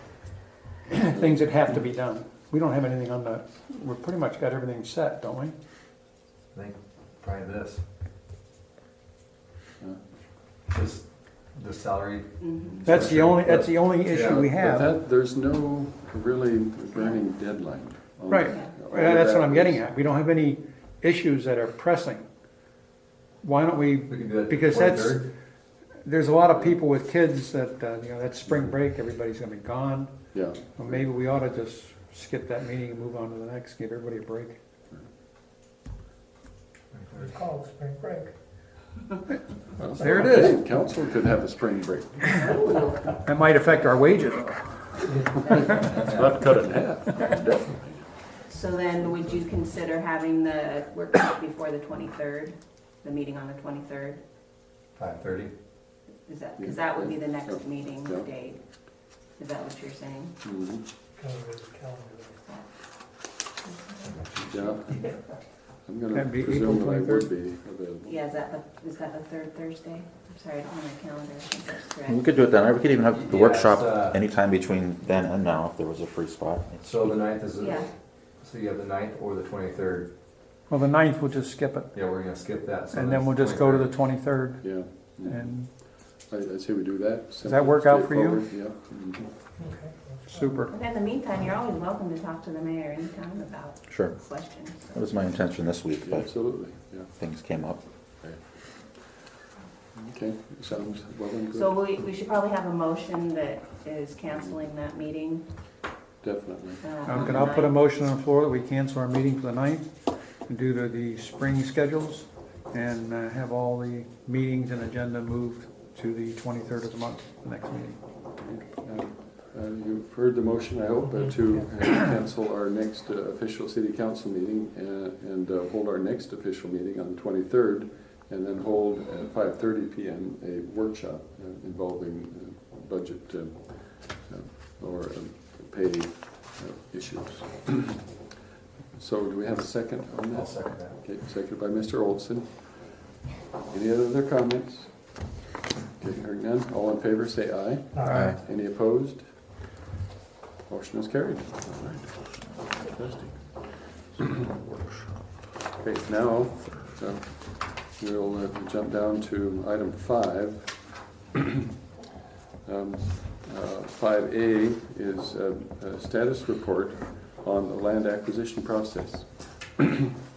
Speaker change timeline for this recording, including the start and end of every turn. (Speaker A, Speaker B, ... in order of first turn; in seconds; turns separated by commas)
Speaker A: 0.9-5.5, Speaker B: 1.1-1.4, Speaker C: 6.5-7.8, Speaker C: 10.7-14.5, Speaker D: 12.4-13.0, Speaker A: 12.8-14.9, Speaker B: 14.5-19.8, Speaker A: 18.3-22.2, Speaker D: 18.4-18.7, Speaker A: 23.4-25.3, Speaker C: 24.1-25.3, Speaker A: 26.0-34.6, Speaker B: 30.3-31.1, Speaker C: 36.9-37.4, Speaker E: 37.2-38.3, Speaker B: 39.7-42.4, Speaker A: 39.8-40.6, Speaker A: 42.2-42.5, Speaker D: 42.3-43.2, Speaker A: 43.2-45.9, Speaker C: 45.1-46.4, Speaker D: 45.3-46.1, Speaker B: 46.0-48.0, Speaker D: 48.4-54.2, Speaker C: 55.0-55.5, Speaker D: 56.2-58.6, Speaker B: 56.6-58.3, Speaker D: 59.4-60.4, Speaker B: 60.4-60.8, Speaker E: 61.2-62.4, Speaker D: 63.6-64.2, Speaker C: 64.1-64.7, Speaker B: 64.5-65.1, Speaker B: 65.8-68.1, Speaker A: 66.1-67.3, Speaker D: 68.0-72.5, Speaker F: 72.1-77.2, Speaker C: 73.1-74.2, Speaker C: 76.8-80.1, Speaker D: 77.6-77.9, Speaker A: 80.7-81.9, Speaker C: 81.9-83.9, Speaker A: 82.9-85.8, Speaker B: 84.6-89.3, Speaker A: 87.4-88.5, Speaker E: 89.6-90.5, Speaker A: 90.2-90.7, Speaker D: 90.7-95.0, Speaker F: 93.9-96.3, Speaker B: 96.0-97.1, Speaker F: 97.2-97.8, Speaker B: 100.0-101.8, Speaker D: 101.5-105.5, Speaker B: 106.2-107.5, Speaker D: 106.8-107.8, Speaker A: 107.0-109.8, Speaker A: 110.5-118.0, Speaker B: 118.4-138.1, Speaker B: 138.9-145.2, Speaker C: 140.3-141.0, Speaker B: 146.0-149.3, Speaker E: 148.0-148.3, Speaker F: 148.1-148.3, Speaker B: 150.7-154.5, Speaker B: 155.8-161.5, Speaker B: 162.6-170.1